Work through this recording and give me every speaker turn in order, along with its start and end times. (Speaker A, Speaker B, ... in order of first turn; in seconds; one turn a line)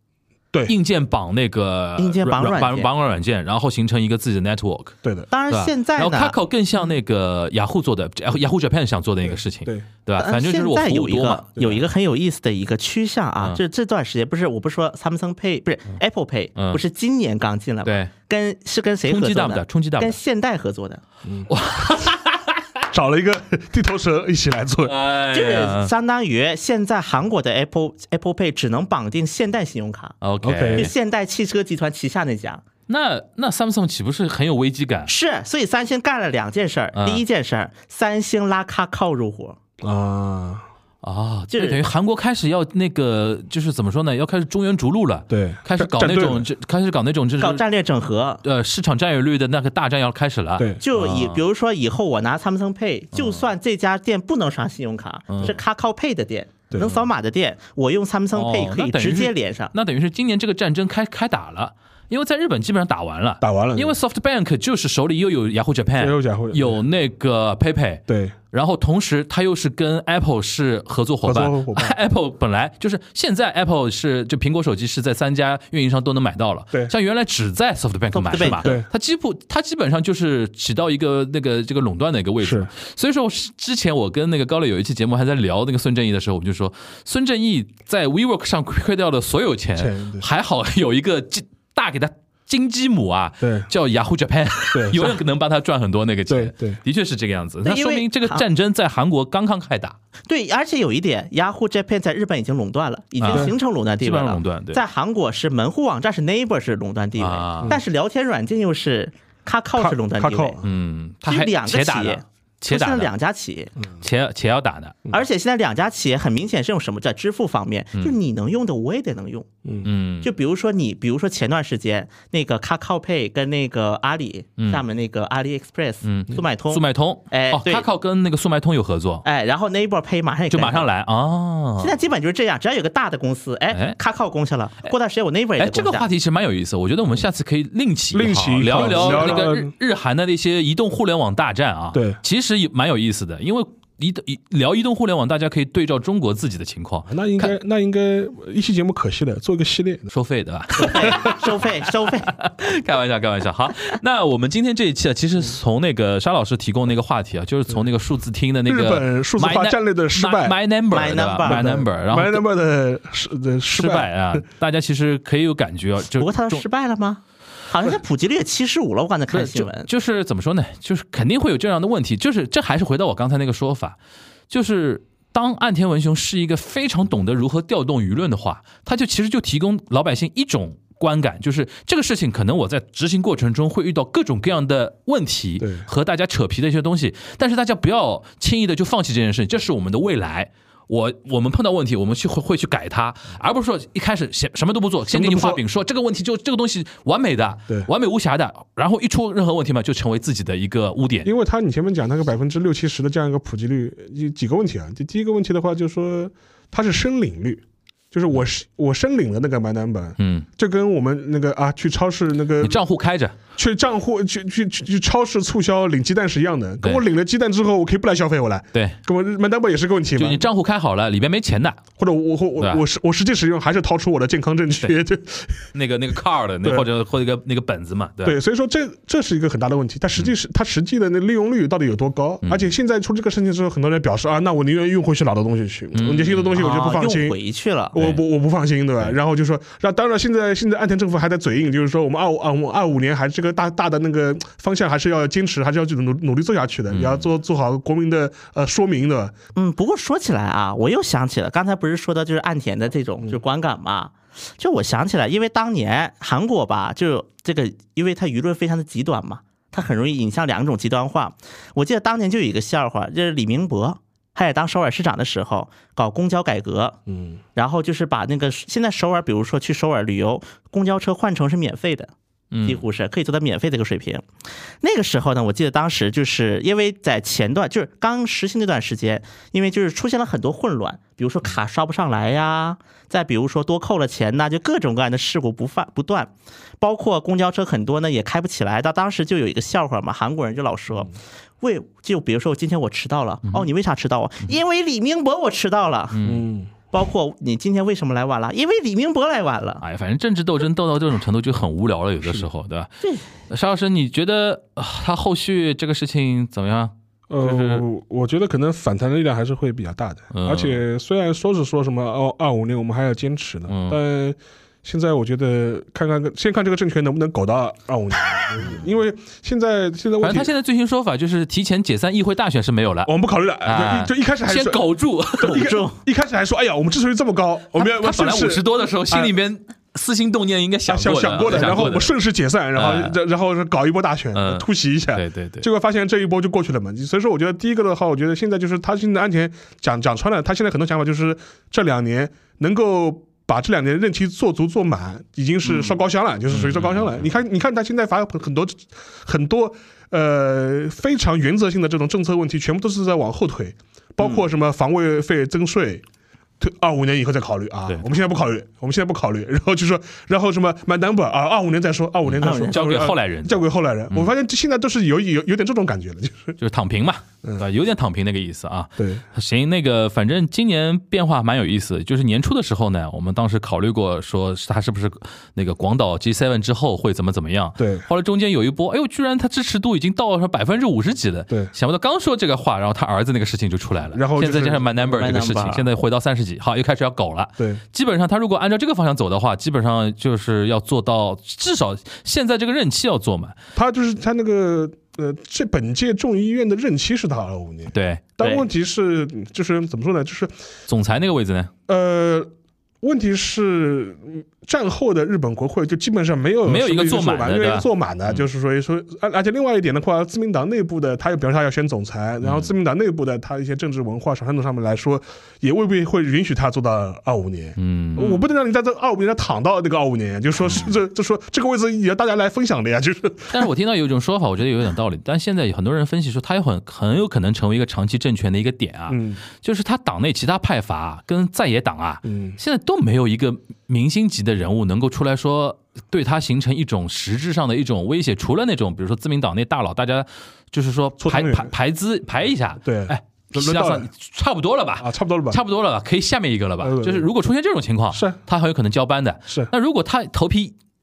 Speaker A: 0.7-5.0
Speaker B: 2.0-2.9
Speaker C: 5.0-5.3
Speaker B: 5.3-6.3
Speaker A: 5.5-11.5
Speaker B: 10.2-21.0
Speaker A: 17.9-18.1
Speaker A: 19.1-20.2
Speaker A: 21.5-22.6
Speaker C: 22.9-24.9
Speaker A: 24.9-25.9
Speaker B: 25.3-30.2
Speaker A: 30.2-30.9
Speaker C: 30.4-30.9
Speaker B: 30.7-32.6
Speaker A: 32.9-35.1
Speaker B: 35.1-39.6
Speaker A: 37.0-37.2
Speaker C: 39.8-40.6
Speaker A: 41.0-47.6
Speaker B: 41.5-41.8
Speaker C: 45.3-46.5
Speaker B: 47.4-48.4
Speaker A: 48.4-51.4
Speaker B: 50.8-59.7
Speaker A: 53.1-53.4
Speaker A: 55.3-55.6
Speaker A: 58.3-100.0
Speaker C: 63.4-63.9
Speaker C: 66.0-66.8
Speaker C: 68.1-68.3
Speaker C: 71.2-72.0
Speaker B: 78.1-78.7
Speaker C: 78.4-78.9
Speaker C: 82.4-82.7
Speaker C: 89.8-90.3
Speaker C: 93.4-93.7
Speaker C: 94.7-95.2
Speaker C: 96.3-96.8
Speaker B: 97.7-98.5
Speaker B: 100.3-110.6
Speaker A: 103.2-104.8
Speaker A: 107.2-107.8
Speaker C: 109.8-110.6
Speaker A: 110.6-113.1
Speaker B: 111.2-113.7
Speaker A: 114.0-115.0
Speaker B: 115.1-119.5
Speaker A: 119.8-120.3
Speaker B: 120.2-127.9
Speaker A: 126.0-129.2
Speaker B: 129.2-130.9
Speaker A: 130.5-132.0
Speaker B: 131.8-136.1
Speaker A: 133.7-134.0
Speaker A: 135.6-147.5
Speaker C: 138.1-139.7
Speaker C: 141.9-142.2
Speaker C: 147.1-150.1
Speaker A: 150.1-151.6
Speaker B: 150.8-152.3
Speaker C: 150.8-151.3
Speaker A: 152.3-162.4
Speaker C: 158.7-160.6
Speaker B: 160.9-161.7
Speaker C: 161.4-164.4
Speaker A: 163.7-166.6
Speaker B: 166.2-169.9
Speaker A: 169.3-174.0
Speaker A: 174.5-201.3
Speaker C: 185.6-185.9
Speaker C: 195.1-195.6
Speaker C: 201.2-212.8
Speaker A: 210.2-210.5
Speaker A: 212.6-213.3
Speaker C: 213.6-220.5
Speaker A: 220.2-221.8
Speaker C: 222.0-225.7
Speaker A: 225.7-228.4
Speaker C: 228.2-237.4
Speaker A: 232.4-232.7
Speaker A: 235.9-236.7
Speaker B: 236.6-237.9
Speaker C: 237.9-249.3
Speaker A: 237.9-238.2
Speaker A: 246.9-247.3
Speaker B: 249.6-267.0
Speaker C: 267.1-267.4
Speaker B: 267.6-272.1
Speaker A: 272.5-272.8
Speaker B: 272.6-274.2
Speaker B: 274.8-296.2
Speaker A: 296.1-296.4
Speaker C: 296.2-296.7
Speaker B: 296.9-299.8
Speaker A: 299.8-302.9
Speaker A: 303.5-307.8
Speaker C: 307.3-320.5
Speaker A: 310.3-310.8
Speaker A: 313.7-314.0
Speaker A: 320.2-325.6
Speaker C: 323.1-329.4
Speaker B: 325.4-326.0
Speaker A: 327.8-332.1
Speaker C: 330.9-356.0
Speaker A: 332.8-333.2
Speaker A: 334.3-335.7
Speaker A: 346.5-347.2
Speaker C: 356.6-366.6
Speaker A: 362.3-364.3
Speaker B: 362.4-362.9
Speaker A: 366.6-393.6
Speaker C: 369.0-369.2
Speaker C: 377.8-378.1
Speaker C: 384.1-385.8
Speaker B: 385.2-385.8
Speaker C: 393.8-400.5
Speaker A: 397.9-398.3
Speaker A: 400.9-401.7
Speaker C: 401.9-402.5
Speaker C: 403.0-423.7
Speaker A: 406.7-408.4
Speaker A: 412.4-412.7
Speaker A: 417.8-418.4
Speaker A: 423.5-450.8
Speaker C: 429.1-429.4
Speaker C: 432.2-432.6
Speaker C: 441.2-441.7
Speaker C: 442.8-444.1
Speaker C: 445.0-445.6
Speaker C: 446.8-447.3
Speaker C: 448.1-448.4